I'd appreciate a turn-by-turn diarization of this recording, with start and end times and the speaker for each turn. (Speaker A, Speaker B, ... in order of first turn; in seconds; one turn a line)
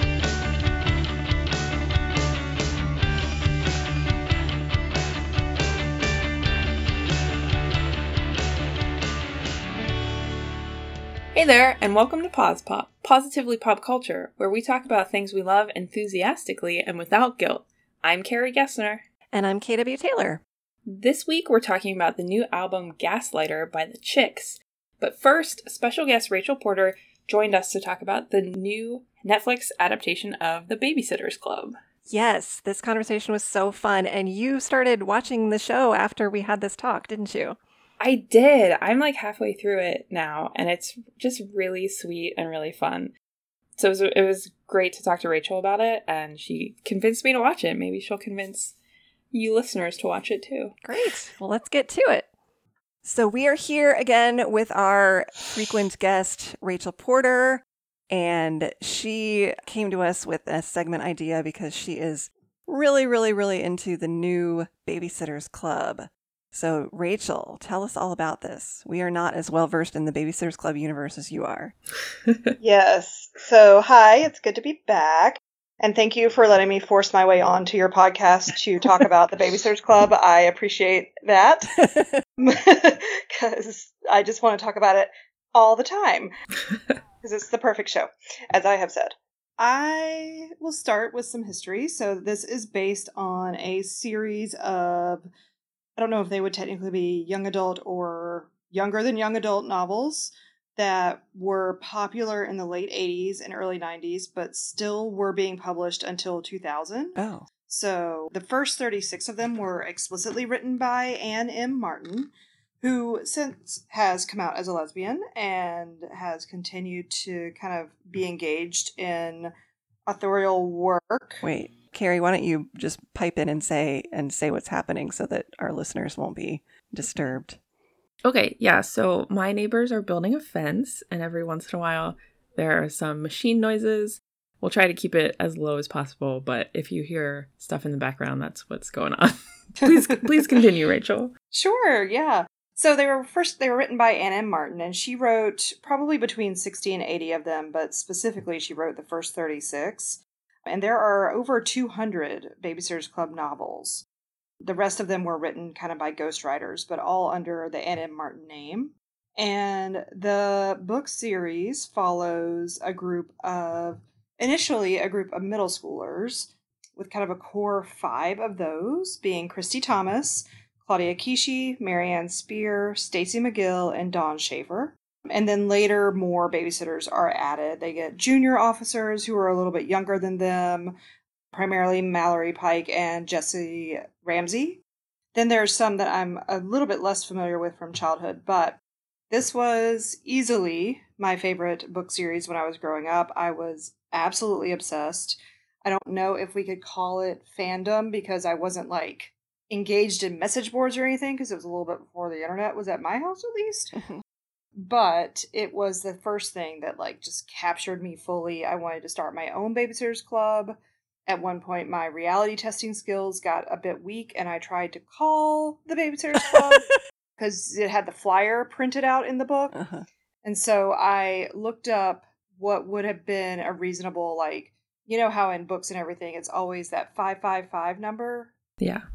Speaker A: 11.3-19.0
Speaker B: 19.3-20.4
Speaker A: 20.9-31.8
Speaker B: 32.1-37.6
Speaker A: 38.0-43.1
Speaker A: 43.8-48.8
Speaker A: 49.3-50.8
Speaker B: 50.9-52.3
Speaker B: 53.0-71.8
Speaker C: 72.6-81.7
Speaker B: 81.8-82.2
Speaker C: 82.4-86.3
Speaker C: 87.2-95.3
Speaker C: 96.0-119.5
Speaker B: 107.2-107.5
Speaker C: 120.1-121.4
Speaker B: 121.4-127.6
Speaker A: 128.2-141.3
Speaker C: 141.5-154.0
Speaker C: 154.6-180.9
Speaker C: 181.5-184.8
Speaker C: 185.3-203.9
Speaker B: 203.9-204.2
Speaker C: 204.8-219.8
Speaker B: 219.7-220.1
Speaker C: 220.4-228.5
Speaker A: 228.8-229.1